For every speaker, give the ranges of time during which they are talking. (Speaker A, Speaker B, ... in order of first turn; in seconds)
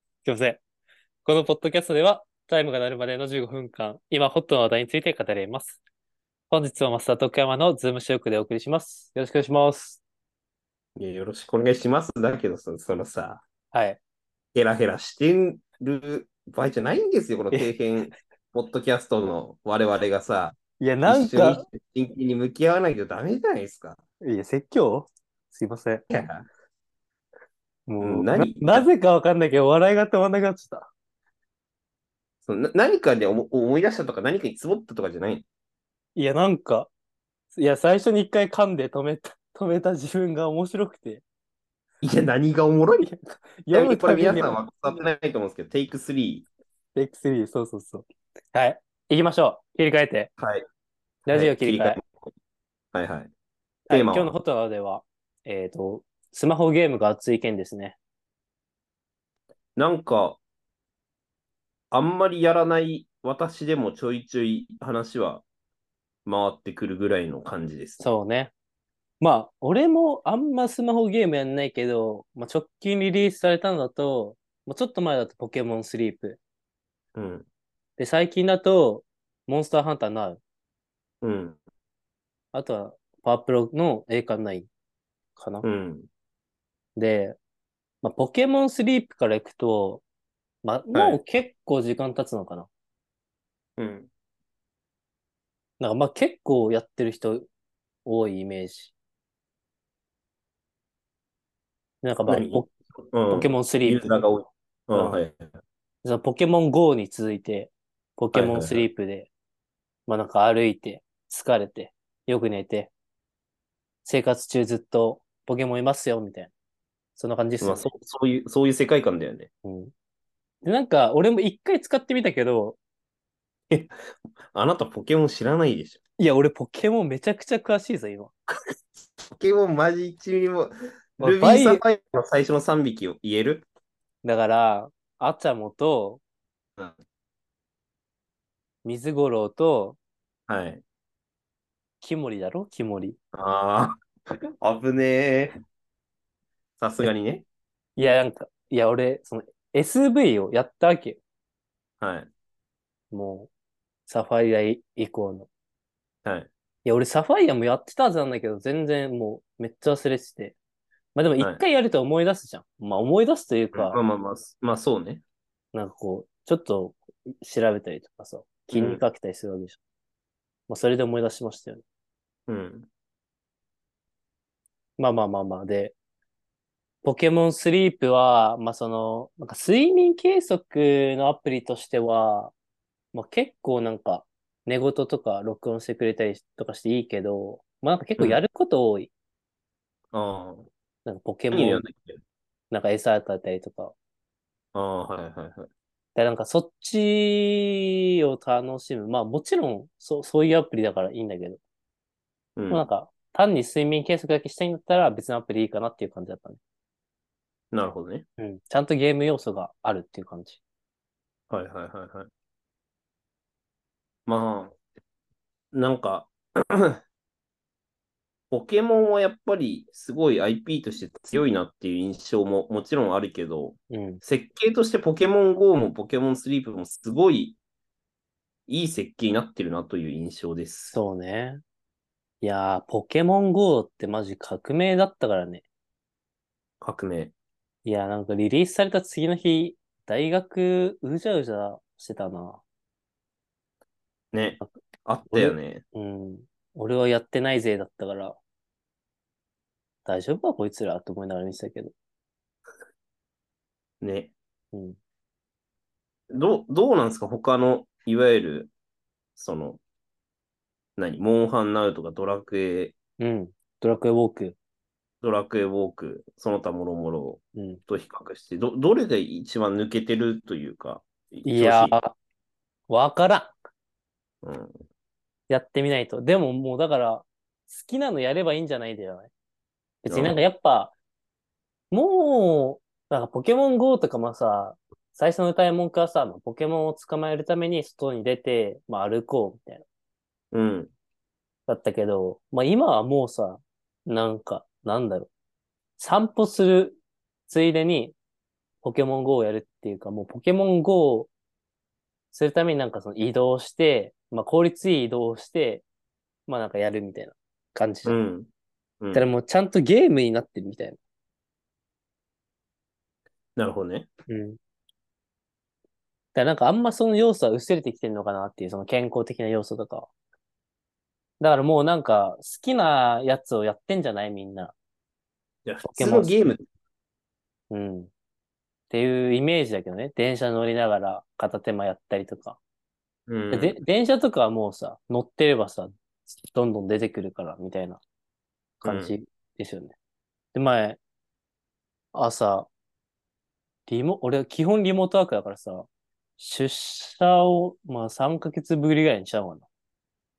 Speaker A: 0.2-0.6, 1.2-5.8, 6.5-10.0, 13.7-14.0, 20.8-21.7, 24.2-26.0, 27.9-30.9, 36.2-36.9, 37.5-41.2, 43.0-45.0, 47.0-50.3, 51.3-52.0, 53.9-58.0, 68.0-68.5, 69.2-76.4, 78.0-80.4, 82.5-84.7, 85.4-85.7, 87.0-87.4, 88.0-90.0, 90.6-92.7, 95.8-97.5, 98.0-98.9, 102.0-102.7, 103.3-104.2, 104.9-105.2, 106.0-109.3, 110.1-112.9, 114.0-116.5, 117.2-117.9, 119.7-119.9, 120.6-122.8, 126.2-128.3, 131.2-131.8, 134.2-136.2, 138.8-140.0, 142.0-143.2, 148.0-151.2, 153.1-153.5, 154.1-155.5, 156.8-160.6, 161.2-164.0, 165.7-169.8, 170.7-171.8, 175.0-175.9, 177.0-182.5, 183.1-189.1, 191.1-191.8, 192.7-193.9, 196.2-201.6, 202.7-206.6, 208.4-210.6, 223.9-224.2, 230.9-231.6, 232.4-235.7, 237.8-242.6, 245.3-248.4, 250.1-251.9, 263.2-264.6, 267.6-267.8, 271.4-272.2, 272.9-273.6, 275.5-279.3, 280.0-280.9, 281.9-289.9, 291.7-295.3, 296.0-298.2, 298.8-301.3, 302.3-305.9, 306.5-308.2, 309.1-311.0, 314.3-314.6, 316.4-320.1, 321.4-324.7, 325.8-326.4, 327.7-328.1, 328.9-332.6, 333.5-338.0, 338.8-339.9, 340.5-341.0, 342.1-342.7, 343.9-345.9, 346.4-349.7
Speaker B: 11.0-13.4, 14.6-24.0, 26.1-26.5, 28.0-28.9, 32.5-35.5, 42.0-43.1, 43.7-46.5, 51.3-52.1, 52.9-53.3, 53.9-54.3, 59.8-60.4, 61.9-65.5, 66.2-68.0, 77.2-77.5, 81.2-81.6, 85.6-86.1, 90.9-91.2, 93.8-94.1, 102.3-105.5, 108.3-108.8, 117.6-119.5, 124.5-126.0, 129.2-133.7, 140.5-140.8, 143.3-144.0, 144.6-145.5, 146.8-147.4, 152.0-152.3, 163.7-165.2, 168.7-169.0, 172.5-172.9, 190.1-190.7, 191.5-192.2, 194.8-195.7, 202.6-202.9, 207.7-208.3, 211.5-212.3, 214.3-214.8, 215.7-217.0, 218.5-227.6, 228.7-231.0, 236.8-237.3, 244.3-245.8, 254.0-254.3, 256.3-258.7, 259.4-259.8, 261.0-263.0, 265.2-272.0, 274.4-274.8, 280.1-280.4, 290.5-290.9, 308.1-308.5, 309.0-309.3, 313.6-314.1, 325.7-326.6, 333.3-333.8, 338.8-339.1